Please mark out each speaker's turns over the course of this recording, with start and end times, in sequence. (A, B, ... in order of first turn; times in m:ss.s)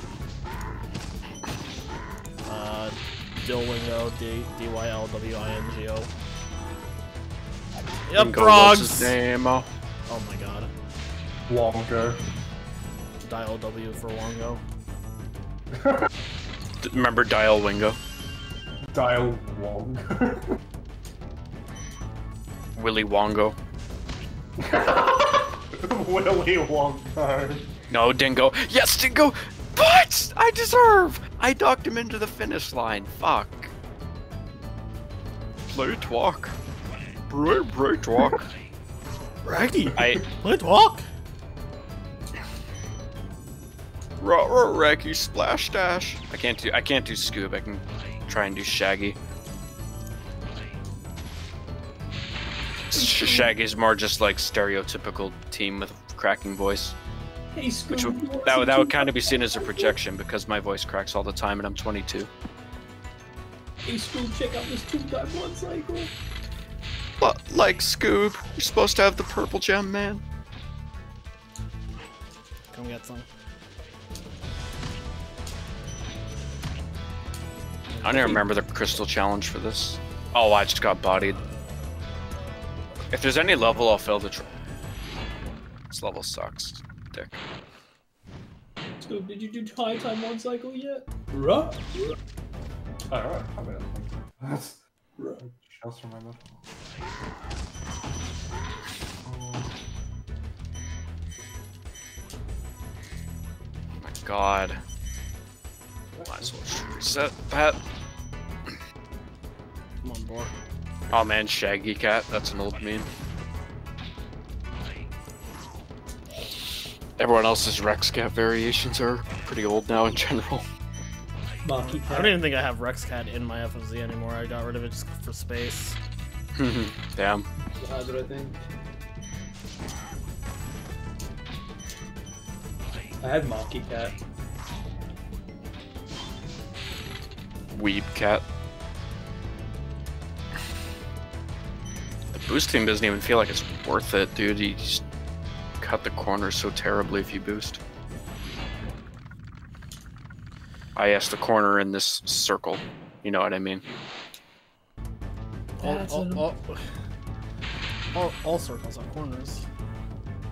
0:02.4-0:06.1 A
0:08.1-0:09.1 A
0:08.2-0:09.7 B
0:10.1-0:10.7 A
0:11.5-0:12.2 C
0:13.2-0:14.6 A
0:15.7-0:16.1 C
0:16.8-0:18.0 B
0:18.9-0:20.6 C
0:22.8-0:23.6 B
0:24.6-0:27.7 C
0:27.9-0:33.7 B
0:35.7-0:36.6 B
0:37.3-0:38.5 B
0:39.4-0:41.1 A
0:39.9-0:40.2 B
0:44.2-0:49.2 B
0:52.9-0:56.9 B
0:52.9-0:53.5 D
0:57.5-0:59.9 D
0:57.9-1:02.3 B
1:03.8-1:06.1 D
1:07.2-1:10.2 B
1:12.7-1:13.3 A
1:17.9-1:18.4 A
1:18.0-1:21.4 B
1:23.1-1:24.5 B
1:25.9-1:27.4 B
1:29.0-1:32.1 D
1:33.1-1:34.8 C
1:35.4-1:36.6 C
1:39.2-1:39.7 C
1:44.0-1:44.8 B
1:46.1-1:46.6 C
1:46.3-1:47.8 B
1:50.0-1:50.5 A
1:51.1-1:53.1 B
1:57.2-2:00.6 B
2:01.6-2:02.4 D
2:01.8-2:06.0 A
2:06.6-2:07.4 B
2:07.8-2:08.6 D
2:13.2-2:14.2 D
2:17.7-2:18.4 B
2:22.3-2:25.0 B
2:25.8-2:27.8 B
2:31.0-2:33.8 B
2:35.8-2:36.5 D
2:35.8-2:36.8 A
2:38.1-2:39.6 A